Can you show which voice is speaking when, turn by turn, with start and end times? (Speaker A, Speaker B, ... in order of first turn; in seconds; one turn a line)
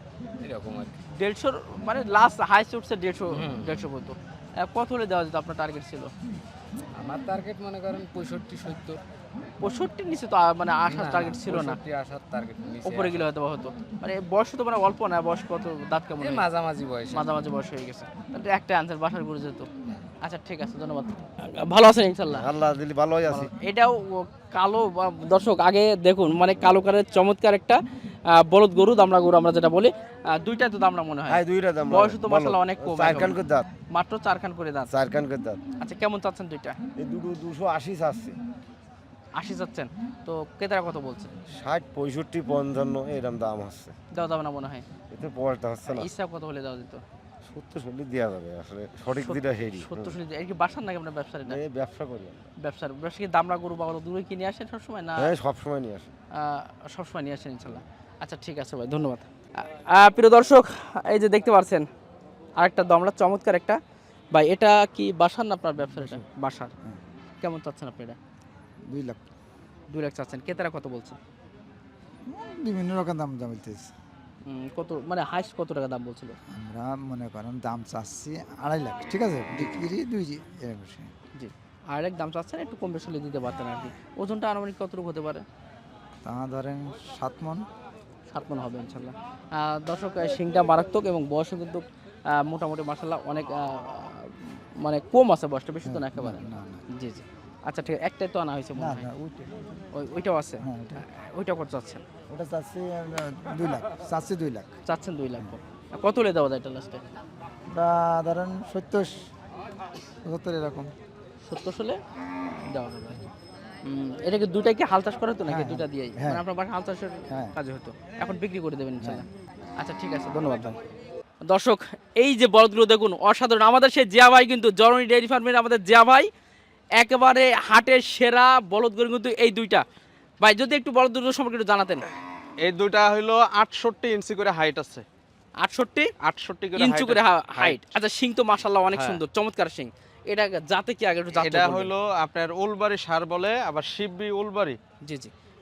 Speaker A: 0.4-0.9
Speaker B: 1.2-6.1
Speaker A: 3.3-3.8
Speaker A: 7.0-9.0
Speaker B: 9.6-11.8
Speaker A: 10.9-13.3
Speaker B: 12.8-16.5
Speaker A: 16.2-17.3
Speaker B: 17.1-19.7
Speaker B: 20.2-22.5
Speaker C: 22.3-23.5
Speaker B: 23.3-27.8
Speaker B: 28.3-33.4
Speaker C: 31.3-33.7
Speaker B: 33.9-34.9
Speaker C: 34.9-35.6
Speaker B: 35.8-36.8
Speaker C: 37.0-38.4
Speaker B: 39.4-41.3
Speaker C: 41.5-43.9
Speaker B: 44.1-44.9
Speaker C: 45.1-46.1
Speaker B: 45.9-47.0
Speaker C: 47.5-50.2
Speaker B: 49.1-51.6
Speaker C: 51.5-52.4
Speaker B: 52.6-55.3
Speaker C: 55.1-56.1
Speaker B: 56.4-61.9
Speaker B: 62.6-63.8
Speaker B: 64.3-66.7
Speaker D: 66.0-66.2
Speaker B: 67.4-68.2
Speaker D: 68.9-69.2
Speaker B: 69.9-71.2
Speaker D: 72.3-73.9
Speaker B: 74.5-76.3
Speaker D: 76.5-81.1
Speaker B: 81.4-85.4
Speaker D: 86.2-87.6
Speaker B: 88.3-99.1
Speaker D: 95.8-96.8
Speaker D: 98.8-99.8
Speaker B: 99.9-102.0
Speaker D: 100.6-101.0
Speaker D: 102.3-104.7
Speaker B: 104.9-107.0
Speaker D: 107.7-109.1
Speaker D: 110.2-110.9
Speaker B: 111.5-112.0
Speaker B: 112.7-113.3
Speaker B: 113.9-119.2
Speaker D: 115.5-116.5
Speaker B: 119.8-120.8
Speaker B: 121.5-126.3
Speaker B: 127.0-129.8
Speaker B: 130.4-132.0
Speaker E: 132.6-135.1
Speaker B: 135.6-136.1
Speaker E: 136.2-137.8
Speaker B: 136.8-141.9
Speaker E: 138.9-139.2
Speaker E: 141.4-144.8
Speaker B: 145.1-145.3